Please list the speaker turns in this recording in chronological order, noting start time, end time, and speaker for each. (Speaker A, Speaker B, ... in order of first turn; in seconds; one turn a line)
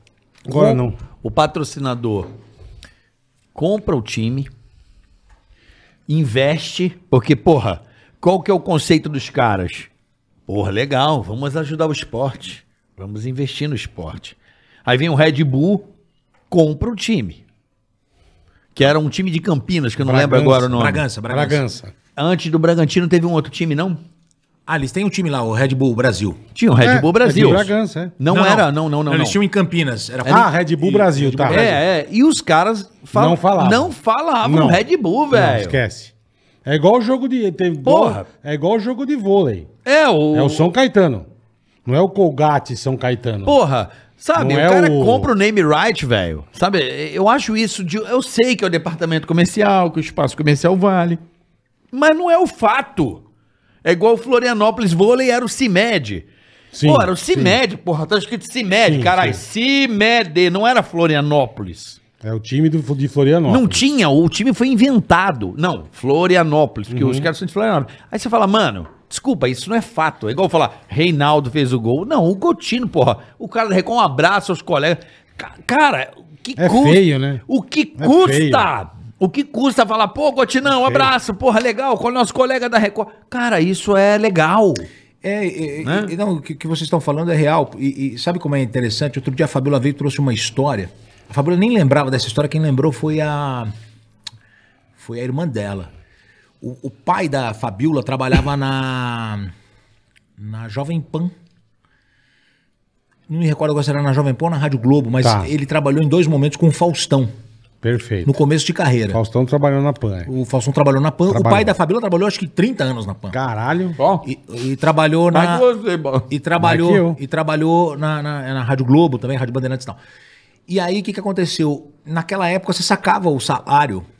Speaker A: 0.5-1.0
Speaker B: 0.5-2.3
Speaker B: 3.5-4.5
Speaker B: 6.1-9.9
Speaker B: 10.5-15.9
Speaker B: 16.5-17.4
Speaker B: 18.7-21.0
Speaker A: 20.0-21.9
Speaker C: 20.7-21.6
Speaker B: 22.1-24.0
Speaker C: 24.7-26.4
Speaker B: 26.5-29.4
Speaker A: 26.8-28.1
Speaker C: 28.3-31.8
Speaker A: 30.2-31.7
Speaker B: 31.4-35.8
Speaker A: 33.1-36.1
Speaker A: 36.6-39.7
Speaker B: 37.8-38.3
Speaker B: 39.8-40.7
Speaker A: 40.3-41.3
Speaker A: 41.8-43.6
Speaker B: 43.5-51.2
Speaker A: 44.4-45.3
Speaker B: 51.9-53.2
Speaker B: 53.8-56.3
Speaker A: 56.7-57.6
Speaker B: 56.8-62.0
Speaker A: 58.9-59.4
Speaker A: 62.2-63.9
Speaker B: 63.5-84.9
Speaker A: 66.9-67.3
Speaker A: 76.6-77.4
Speaker A: 78.0-78.7
Speaker C: 85.2-93.7
Speaker B: 85.8-86.1
Speaker C: 95.0-95.9
Speaker C: 96.6-99.5
Speaker C: 100.4-101.3
Speaker C: 103.3-107.3
Speaker A: 105.2-105.5
Speaker A: 107.8-108.3
Speaker C: 108.2-109.2
Speaker A: 109.1-110.3
Speaker C: 110.3-113.4
Speaker A: 111.3-111.7
Speaker A: 113.3-114.0
Speaker B: 114.0-114.2
Speaker C: 114.2-115.7
Speaker B: 115.3-116.3
Speaker C: 116.3-120.0
Speaker A: 116.6-117.2
Speaker C: 120.7-124.0